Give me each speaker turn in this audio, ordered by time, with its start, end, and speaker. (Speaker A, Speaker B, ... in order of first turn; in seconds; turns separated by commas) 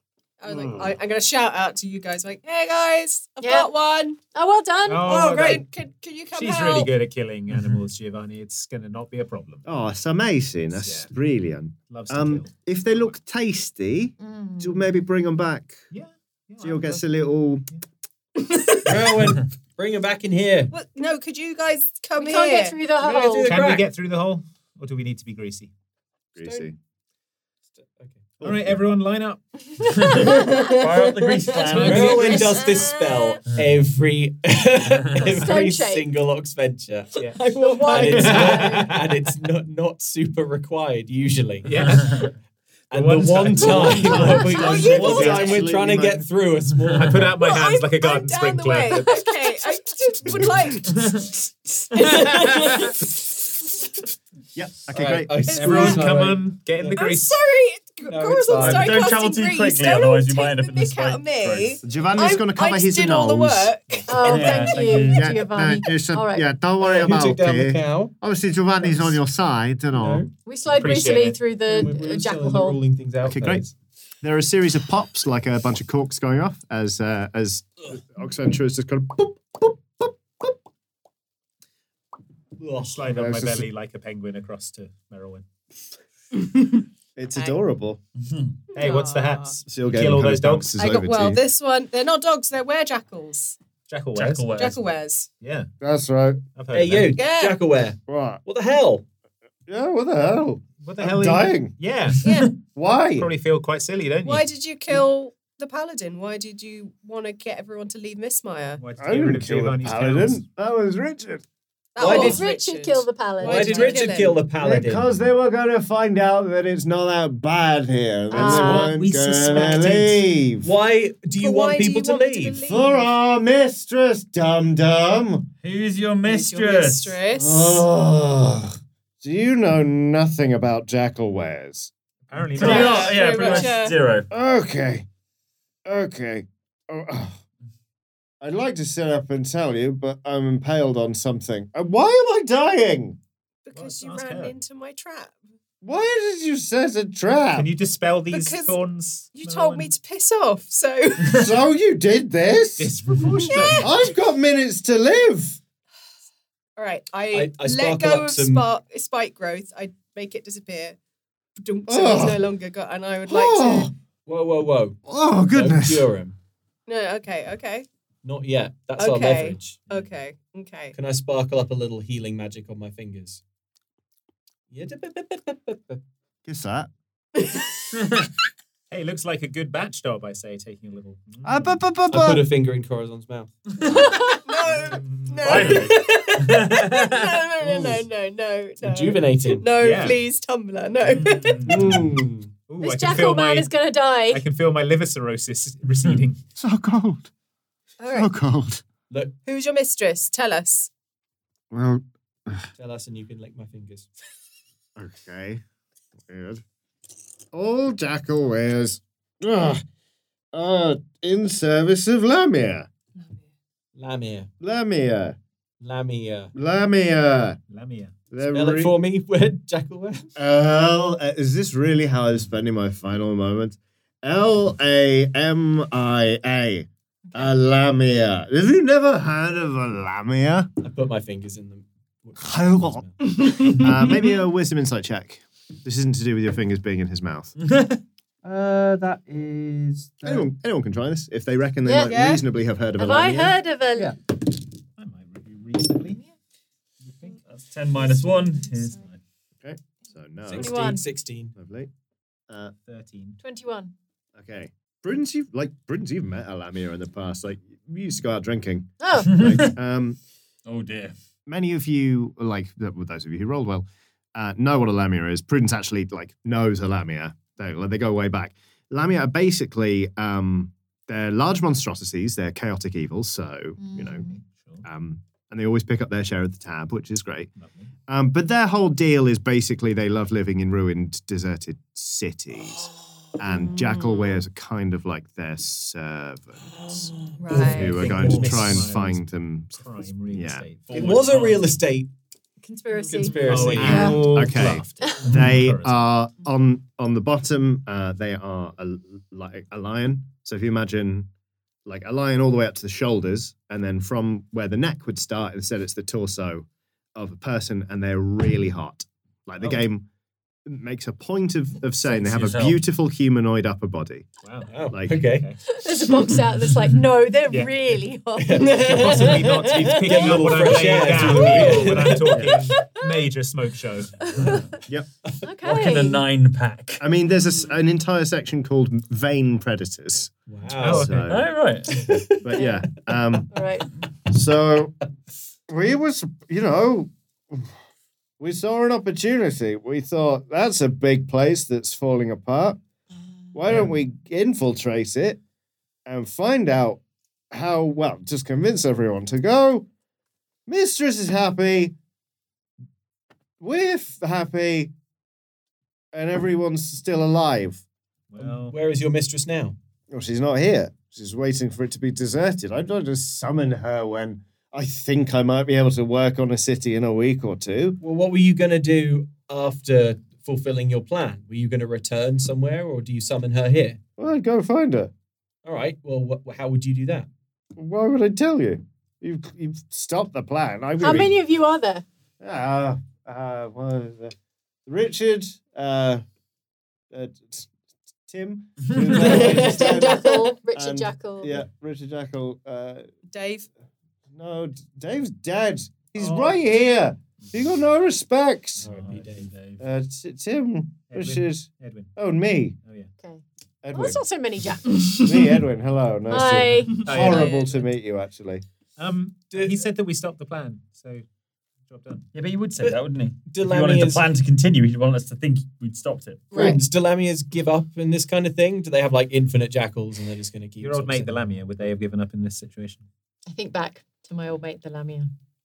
Speaker A: 0.4-4.2, Speaker B: 0.5-0.9, Speaker C: 3.4-3.7, Speaker C: 4.3-5.3, Speaker D: 4.9-5.7, Speaker A: 5.0-7.0, Speaker D: 6.3-9.7, Speaker B: 9.7-15.8, Speaker D: 10.7-11.1, Speaker D: 11.9-13.1, Speaker C: 14.2-14.8, Speaker D: 15.9-17.1, Speaker B: 16.6-17.7, Speaker A: 18.4-18.9, Speaker E: 18.8-20.7, Speaker A: 20.7-22.8, Speaker C: 22.2-23.6, Speaker E: 23.0-23.9, Speaker D: 23.4-25.7, Speaker B: 26.4-26.8, Speaker E: 27.8-28.3, Speaker B: 28.4-28.8, Speaker D: 28.4-30.1, Speaker F: 29.8-32.5, Speaker C: 29.9-30.7, Speaker A: 30.3-33.1, Speaker E: 31.8-42.0, Speaker C: 32.1-32.9, Speaker F: 35.0-35.3, Speaker C: 35.2-36.1, Speaker D: 37.2-39.0, Speaker A: 37.4-38.6, Speaker C: 37.5-39.0, Speaker D: 41.6-42.2, Speaker F: 42.1-42.3, Speaker E: 42.9-47.4, Speaker D: 42.9-44.6, Speaker A: 43.7-45.6, Speaker B: 44.3-46.3, Speaker F: 46.9-47.3, Speaker D: 47.0-49.3, Speaker A: 47.4-53.9, Speaker C: 49.0-49.3, Speaker F: 50.9-51.3, Speaker B: 54.5-56.1, Speaker E: 54.9-57.0, Speaker D: 55.5-57.4, Speaker A: 56.9-64.3, Speaker E: 58.0-59.0, Speaker F: 58.6-61.8, Speaker B: 61.8-63.7, Speaker D: 63.9-64.6, Speaker C: 64.1-66.5, Speaker F: 64.2-65.4, Speaker B: 65.1-70.3, Speaker E: 66.8-68.2, Speaker E: 68.8-69.2, Speaker E: 69.9-70.3, Speaker C: 70.5-72.8, Speaker D: 70.7-71.4, Speaker E: 71.7-73.7, Speaker B: 73.2-73.6, Speaker B: 74.2-80.5, Speaker E: 82.6-83.0, Speaker D: 82.8-85.5, Speaker B: 83.1-83.7, Speaker A: 86.4-86.8, Speaker B: 87.2-88.0, Speaker F: 88.2-88.6, Speaker A: 88.7-89.6, Speaker D: 88.8-90.7, Speaker B: 89.7-91.4, Speaker A: 90.8-93.6, Speaker D: 93.9-94.8, Speaker F: 94.2-94.8, Speaker A: 94.6-95.3, Speaker D: 95.4-95.7, Speaker B: 95.8-96.4, Speaker D: 96.6-97.2, Speaker E: 96.7-99.0, Speaker A: 97.1-97.6, Speaker B: 98.1-98.4, Speaker B: 99.7-101.8, Speaker D: 100.8-102.3, Speaker A: 102.2-102.5, Speaker F: 102.2-102.6, Speaker B: 102.7-103.3, Speaker D: 103.2-104.5, Speaker A: 104.2-108.8, Speaker D: 108.8-110.4, Speaker B: 109.0-111.4, Speaker A: 112.0-114.4, Speaker C: 112.0-114.2, Speaker E: 112.0-112.4, Speaker E: 113.4-115.1, Speaker B: 114.6-120.7, Speaker C: 118.3-118.9, Speaker E: 118.3-118.9, Speaker D: 118.4-120.2, Speaker E: 120.6-122.6, Speaker A: 121.3-123.1, Speaker B: 122.6-125.5, Speaker F: 125.6-127.2, Speaker A: 126.2-127.9, Speaker B: 127.3-131.9, Speaker D: 132.3-133.4, Speaker F: 132.6-134.3, Speaker A: 132.6-134.0, Speaker B: 134.3-135.1, Speaker B: 135.8-137.4, Speaker B: 138.4-143.2, Speaker A: 143.7-145.4, Speaker D: 143.7-144.6, Speaker B: 145.8-147.7, Speaker D: 147.5-149.9, Speaker A: 148.3-148.8, Speaker A: 149.3-151.5, Speaker B: 151.3-155.6, Speaker D: 152.8-153.9, Speaker A: 153.2-153.9, Speaker A: 156.8-161.0, Speaker E: 157.3-158.7, Speaker A: 161.6-163.9, Speaker B: 161.9-162.5, Speaker B: 163.3-163.9, Speaker E: 164.3-165.0, Speaker B: 165.1-166.1, Speaker E: 165.5-166.4, Speaker A: 166.9-167.9, Speaker E: 168.2-169.9, Speaker A: 169.0-171.0, Speaker E: 170.9-173.4, Speaker E: 174.7-176.0, Speaker B: 176.5-176.9, Speaker A: 177.3-177.8, Speaker D: 178.9-181.8, Speaker B: 181.4-182.4, Speaker E: 182.1-183.5, Speaker C: 183.9-184.5, Speaker A: 184.4-191.8, Speaker D: 184.7-185.7, Speaker F: 185.4-187.4, Speaker E: 188.8-189.7, Speaker D: 189.8-190.2, Speaker F: 191.1-191.7, Speaker D: 191.6-192.0, Speaker E: 191.6-192.5, Speaker D: 192.7-193.7, Speaker C: 192.8-194.4, Speaker D: 194.3-196.4, Speaker B: 196.6-197.3, Speaker A: 198.0-198.3, Speaker B: 198.1-198.8, Speaker E: 199.1-199.3, Speaker A: 199.4-200.9, Speaker B: 201.7-202.7, Speaker E: 202.8-204.1, Speaker B: 205.0-205.6, Speaker B: 206.3-206.6, Speaker B: 207.5-209.8, Speaker B: 210.5-212.9, Speaker A: 213.2-213.5, Speaker E: 213.9-214.5, Speaker B: 214.6-215.4, Speaker E: 215.8-216.5, Speaker B: 216.6-217.6, Speaker D: 217.7-218.1, Speaker B: 218.3-219.0, Speaker E: 218.5-220.3, Speaker B: 220.4-230.7, Speaker E: 230.8-233.2, Speaker B: 232.4-237.5, Speaker A: 233.2-234.3, Speaker F: 237.7-238.0, Speaker E: 238.4-240.5, Speaker B: 240.2-243.6, Speaker C: 241.8-242.2, Speaker A: 242.1-242.4, Speaker C: 243.0-244.1, Speaker D: 245.0-246.2, Speaker D: 247.0-247.4, Speaker F: 247.4-249.2, Speaker B: 249.6-250.9, Speaker E: 250.4-251.5, Speaker C: 250.5-251.0, Speaker B: 251.5-251.9, Speaker B: 252.5-252.7, Speaker D: 252.9-253.4, Speaker C: 253.4-253.9, Speaker B: 254.4-260.2, Speaker C: 259.0-259.4, Speaker F: 259.2-259.7, Speaker F: 260.7-261.1, Speaker B: 261.5-274.3, Speaker C: 273.8-274.1, Speaker D: 274.2-274.9, Speaker B: 274.8-277.5, Speaker D: 277.6-277.9, Speaker B: 278.1-282.9, Speaker B: 283.4-290.7, Speaker E: 286.7-288.8, Speaker A: 287.4-288.1, Speaker D: 287.5-291.1, Speaker F: 290.9-291.7, Speaker E: 290.9-292.1, Speaker C: 292.6-294.1, Speaker E: 293.1-294.4, Speaker D: 293.4-296.0, Speaker B: 293.8-301.3, Speaker A: 293.9-294.2, Speaker B: 301.9-310.1, Speaker D: 309.6-309.9, Speaker B: 310.7-314.3, Speaker F: 312.0-312.8, Speaker D: 314.4-315.6, Speaker E: 314.7-315.5, Speaker B: 314.9-315.3, Speaker C: 315.7-318.8, Speaker D: 317.5-317.7, Speaker E: 318.4-322.5, Speaker D: 318.7-324.5, Speaker A: 318.9-319.4, Speaker C: 319.7-320.5, Speaker C: 324.2-324.8, Speaker F: 324.4-324.7, Speaker B: 324.8-325.1, Speaker C: 325.4-326.2, Speaker F: 325.6-327.1, Speaker B: 327.0-331.5, Speaker E: 330.5-331.1, Speaker D: 330.7-331.3, Speaker F: 331.2-332.3, Speaker B: 332.1-333.6, Speaker E: 332.1-332.4, Speaker C: 332.6-332.9, Speaker C: 333.5-333.9, Speaker B: 334.3-335.0, Speaker B: 335.7-337.7, Speaker B: 338.4-342.8, Speaker B: 343.5-345.4, Speaker B: 346.1-347.0, Speaker B: 347.5-349.9, Speaker B: 350.7-351.9, Speaker B: 353.6-354.9, Speaker B: 356.1-357.8, Speaker D: 358.3-358.8, Speaker E: 358.4-359.8, Speaker B: 360.1-368.0, Speaker E: 368.0-374.0, Speaker B: 374.2-375.1, Speaker E: 375.6-377.3, Speaker B: 377.8-381.4, Speaker C: 381.0-382.0, Speaker B: 382.4-384.3, Speaker B: 384.9-386.2, Speaker B: 387.1-387.7, Speaker B: 388.3-393.1, Speaker C: 389.1-391.5, Speaker A: 389.1-390.6, Speaker A: 393.3-393.7, Speaker B: 394.3-398.9, Speaker D: 396.2-396.6, Speaker D: 398.8-399.2, Speaker E: 398.8-399.5, Speaker F: 398.9-399.8, Speaker B: 399.8-402.8, Speaker D: 401.1-402.1, Speaker D: 402.8-403.1, Speaker C: 403.2-405.4, Speaker B: 403.8-404.2, Speaker A: 405.0-405.2, Speaker B: 405.2-408.6, Speaker C: 406.3-407.2, Speaker A: 407.0-407.8, Speaker D: 407.0-407.6, Speaker D: 409.0-411.2, Speaker E: 409.5-409.8, Speaker D: 411.9-412.3, Speaker F: 412.3-416.5, Speaker E: 412.8-414.2, Speaker A: 416.5-416.8, Speaker E: 416.5-421.4, Speaker D: 420.8-423.1, Speaker C: 423.5-425.3